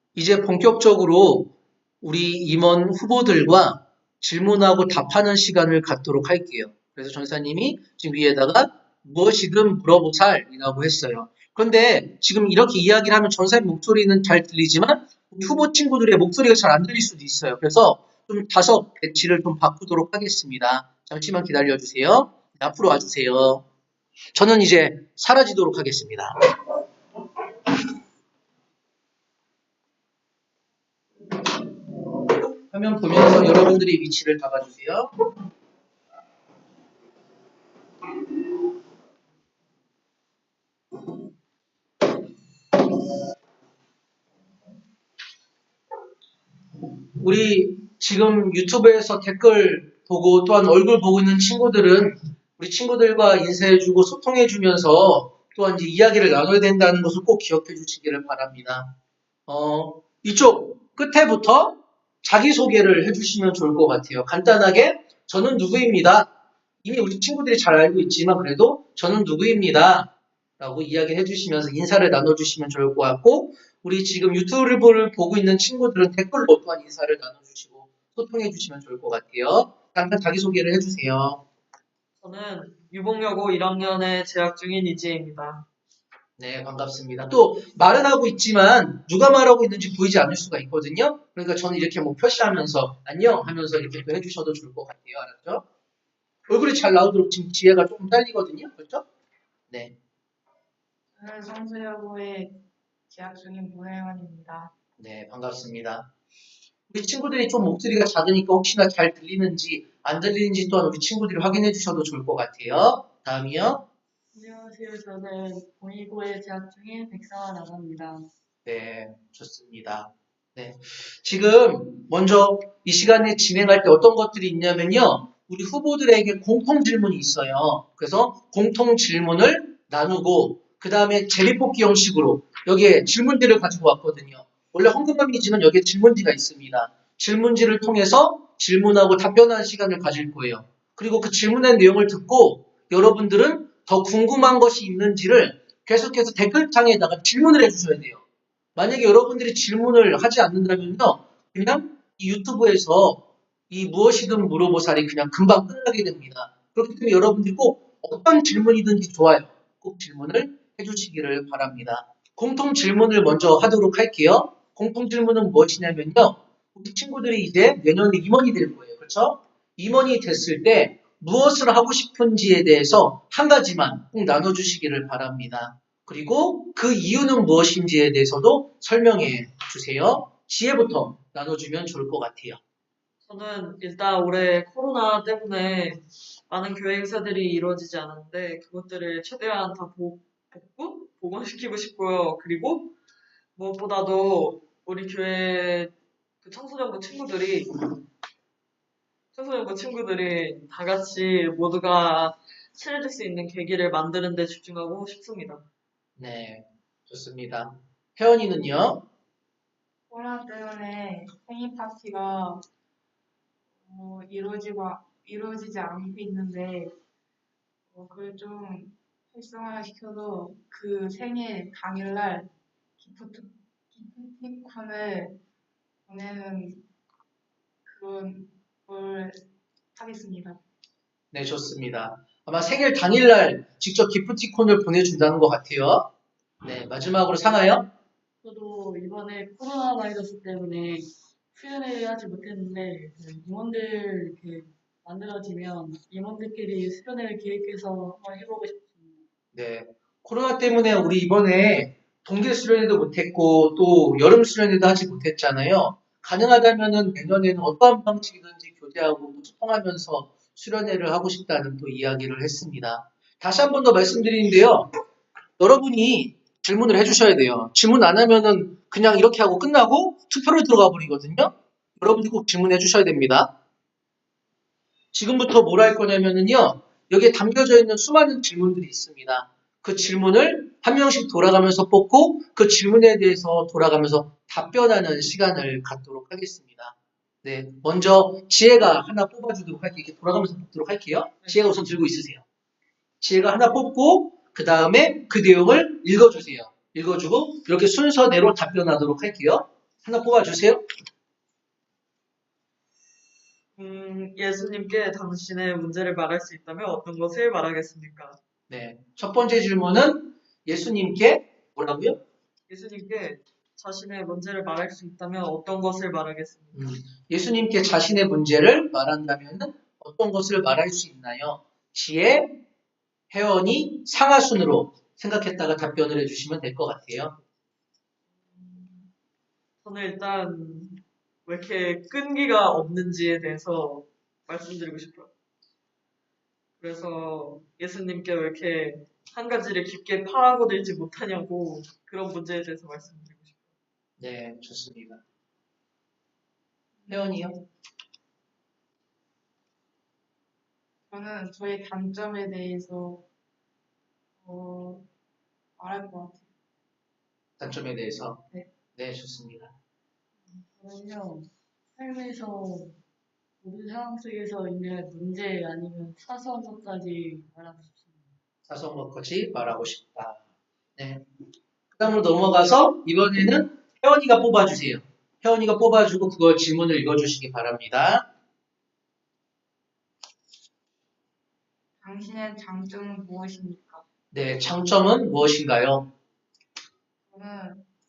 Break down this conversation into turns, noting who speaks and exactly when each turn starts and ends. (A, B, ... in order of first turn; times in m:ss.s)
0:00.2-0:23.6 A
0:24.4-0:26.4 A
0:32.7-0:35.1 A
0:47.2-0:59.0 A
0:59.5-1:06.3 A
1:06.8-1:21.4 A
1:22.2-1:25.7 B
1:26.4-1:35.6 A
1:36.5-1:39.1 A
1:39.7-1:40.0 A
1:41.2-1:44.7 C
1:45.0-1:46.1 A
1:46.9-1:53.9 A
1:54.3-1:58.3 D
1:58.6-2:28.2 A
2:28.8-3:02.6 A
3:03.3-3:12.9 B
3:13.6-3:17.9 B
3:19.3-3:25.6 B
3:26.2-3:29.1 A
3:30.1-3:32.6 C
3:33.8-3:36.9 C
3:37.9-3:45.4 C
3:46.1-3:46.9 C
3:47.8-3:49.4 C
3:50.0-3:50.6 C
3:51.3-3:56.1 A
3:56.6-3:57.9 A
3:58.4-4:09.2 D
4:09.5-4:24.9 A
4:25.6-4:33.5 A
4:35.1-4:52.4 A
4:53.2-5:00.8 A
5:03.8-5:08.4 B
5:08.7-5:12.2 A
5:12.7-5:16.9 B
5:16.8-5:22.6 A
5:23.3-5:27.4 A
5:28.5-5:29.1 B
5:29.8-5:35.3 B
5:36.8-5:43.7 B
5:44.2-5:45.2 A
5:47.0-5:47.5 C
5:47.1-5:47.6 A
5:51.1-5:53.2 C
5:54.4-5:55.1 C
5:55.8-5:56.5 C
5:57.6-5:58.4 A
5:59.0-5:59.7 A
6:00.8-6:03.0 D
6:03.6-6:08.3 D
6:08.7-6:10.4 A
6:11.0-6:11.2 A
6:11.9-6:18.3 A
6:22.0-6:24.1 C
6:24.3-6:26.1 A
6:27.3-6:27.9 C